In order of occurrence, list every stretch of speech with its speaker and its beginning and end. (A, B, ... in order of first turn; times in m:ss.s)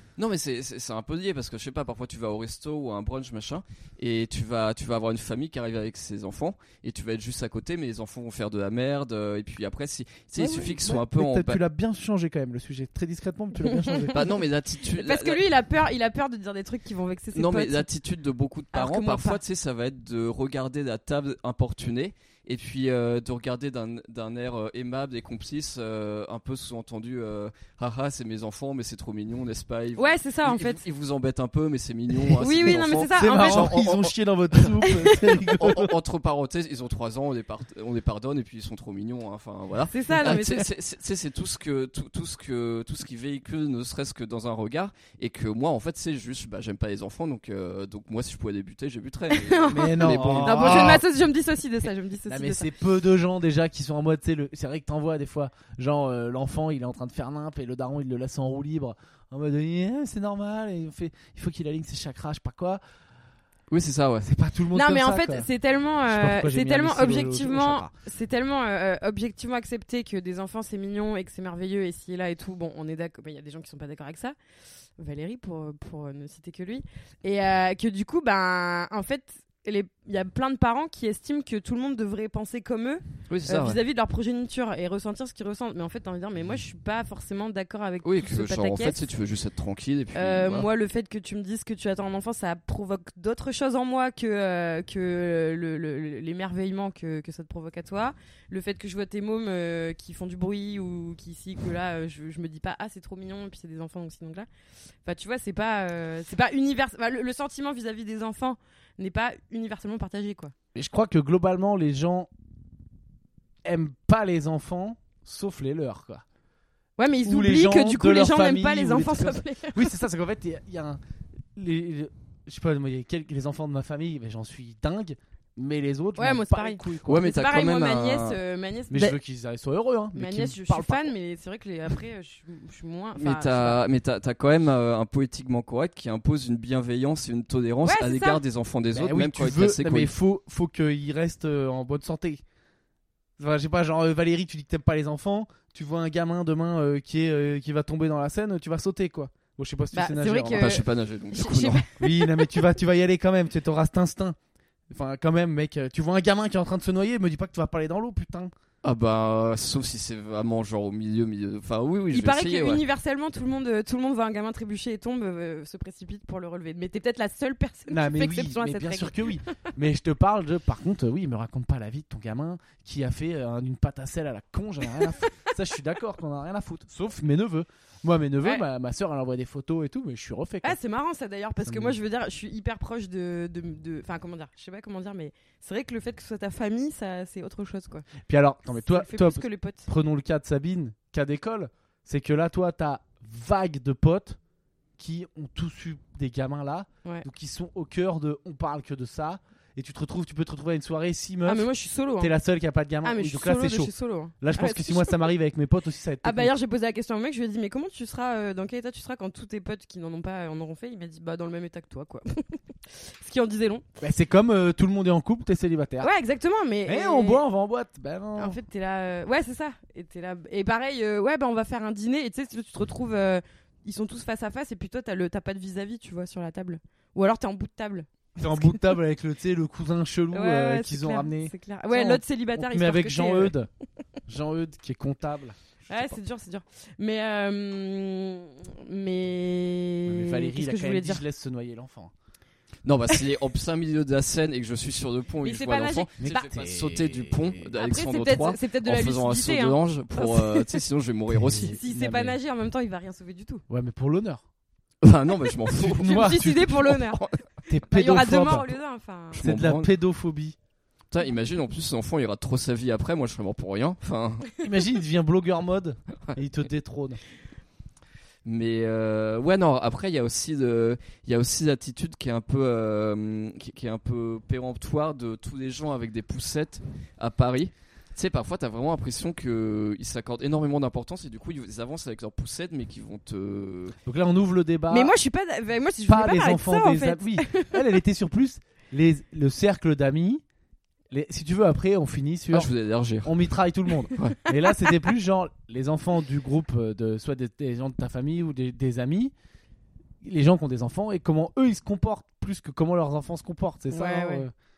0:00.2-0:11.6 A
0:10.4-0:14.4 B
0:13.6-0:14.1 C
0:14.1-0:15.4 A
0:14.9-0:17.9 C
0:17.3-0:34.8 A
0:18.7-0:19.4 C
0:30.0-0:30.8 C
0:32.2-0:36.0 B
0:32.4-0:33.7 C
0:34.8-0:35.1 C
0:35.4-0:51.0 A
0:39.9-0:40.7 C
0:49.3-0:52.7 C
0:49.7-0:51.0 B
0:52.3-1:02.8 B
1:03.7-1:04.3 A
1:04.2-1:05.5 B
1:04.7-1:14.3 C
1:06.1-1:07.9 B
1:15.0-1:29.1 C
1:23.3-1:23.8 A
1:28.0-1:30.7 A
1:30.1-1:44.5 C
1:45.0-1:50.5 C
1:50.7-1:52.3 B
1:53.6-1:56.2 B
1:57.0-1:59.9 C
1:57.2-2:01.0 B
2:01.5-2:07.2 B
2:06.2-2:09.2 C
2:07.0-2:08.4 A
2:08.9-2:11.1 B
2:10.1-2:13.8 C
2:13.2-2:20.1 A
2:17.8-2:18.4 C
2:18.9-2:22.4 B
2:23.4-2:30.8 B
2:29.9-2:32.6 C
2:30.5-2:31.8 A
2:32.0-2:34.4 B
2:34.9-2:38.5 B
2:38.8-2:42.8 A
2:42.1-2:49.6 C
2:47.9-3:00.8 B
3:00.6-3:08.1 C
3:01.6-3:02.0 B
3:08.2-3:14.4 B
3:08.7-3:09.9 C
3:15.0-3:21.7 B
3:21.4-3:22.3 C
3:22.2-3:26.5 B
3:23.0-3:25.2 C
3:26.2-3:33.8 C
3:34.0-3:36.1 B
3:36.0-3:37.4 C
3:36.8-3:38.6 B
3:38.4-3:48.8 C
3:48.4-3:53.7 B
3:50.3-3:53.5 C
3:54.3-3:56.1 B
3:55.9-4:01.2 C
4:00.1-4:02.1 B
4:02.8-4:11.8 A
4:05.4-4:06.5 C
4:06.2-4:07.7 B
4:07.8-4:10.8 C
4:11.3-4:12.4 B
4:11.6-4:13.6 C
4:13.7-4:14.4 B
4:15.0-4:17.4 A
4:15.8-4:16.5 B
4:16.0-4:17.2 C
4:17.7-4:18.8 B
4:17.9-4:19.4 C
4:19.3-4:19.9 A
4:19.4-4:20.6 B
4:21.1-4:24.5 A
4:24.6-4:27.2 B
4:28.4-4:44.0 A
4:44.0-4:45.1 B
4:44.9-4:47.8 C
4:46.1-4:50.4 B
4:51.1-4:52.7 B
4:52.5-4:53.4 A
4:53.2-4:59.3 B
5:00.2-5:04.5 B
5:03.9-5:04.4 C